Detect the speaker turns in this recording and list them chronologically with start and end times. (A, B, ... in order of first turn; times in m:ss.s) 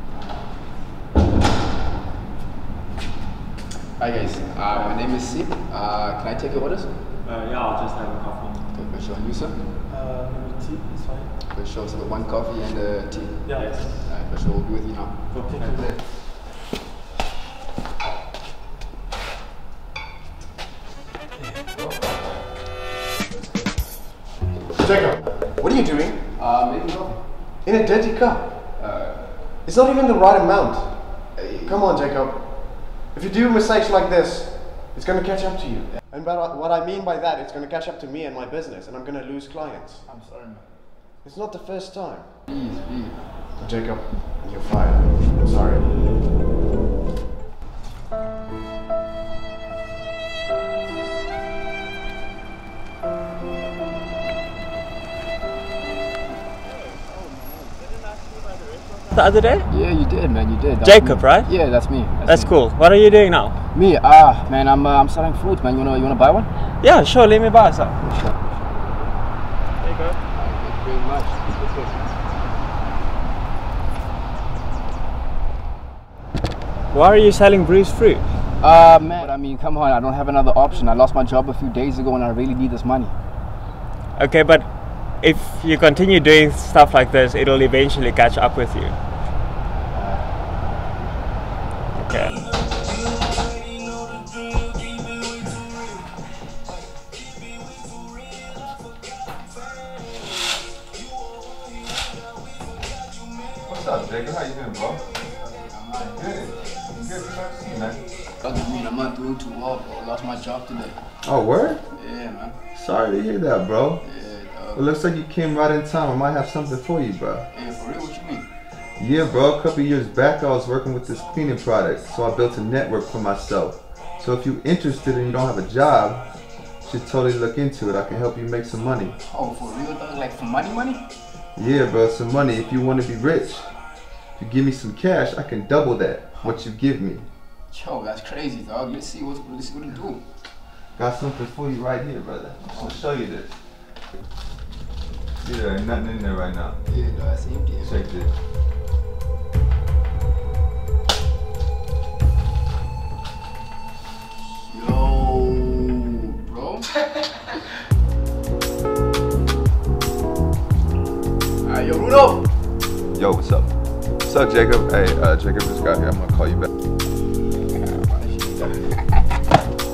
0:04.0-0:07.0 A
0:08.7-0:09.6 A
0:09.9-0:11.4 B
0:11.4-0:15.2 A
0:13.4-0:14.0 B
0:15.4-0:15.8 B
0:21.4-0:22.2 A
0:24.5-0:24.8 A
0:24.8-0:26.2 C
0:26.3-0:27.6 A
0:27.6-0:28.6 C
0:28.7-0:29.6 A
0:29.6-0:40.0 C
0:31.3-0:32.0 A
0:40.0-0:40.8 A
0:41.2-0:42.4 C
0:42.5-0:43.5 A
0:43.6-0:46.1 C
0:59.1-0:59.7 D
0:59.7-1:02.7 A
1:00.8-1:01.5 D
1:02.2-1:03.6 D
1:03.7-1:06.5 A
1:06.8-1:07.9 D
1:08.0-1:08.6 A
1:10.3-1:11.8 A
1:16.9-1:18.2 D
1:18.6-1:23.2 A
1:24.1-1:29.0 D
1:32.0-1:32.4 D
1:43.6-1:45.0 E
1:45.3-1:46.2 A
1:46.1-1:48.0 E
1:48.4-1:51.1 A
1:51.2-1:51.8 E
1:51.9-1:52.6 A
1:52.7-1:54.0 E
1:54.0-1:54.9 A
1:54.7-1:57.4 E
1:57.5-1:58.5 A
1:59.0-2:09.1 E
2:09.2-2:11.1 A
2:11.5-2:17.2 E
2:16.3-2:16.6 A
2:17.7-2:20.3 A
2:20.9-2:23.7 E
2:25.4-2:26.8 E
2:26.8-2:28.0 A
2:27.8-2:28.3 E
2:34.7-2:36.9 A
2:41.6-2:42.5 A
2:43.1-2:46.7 E
2:47.7-2:49.3 A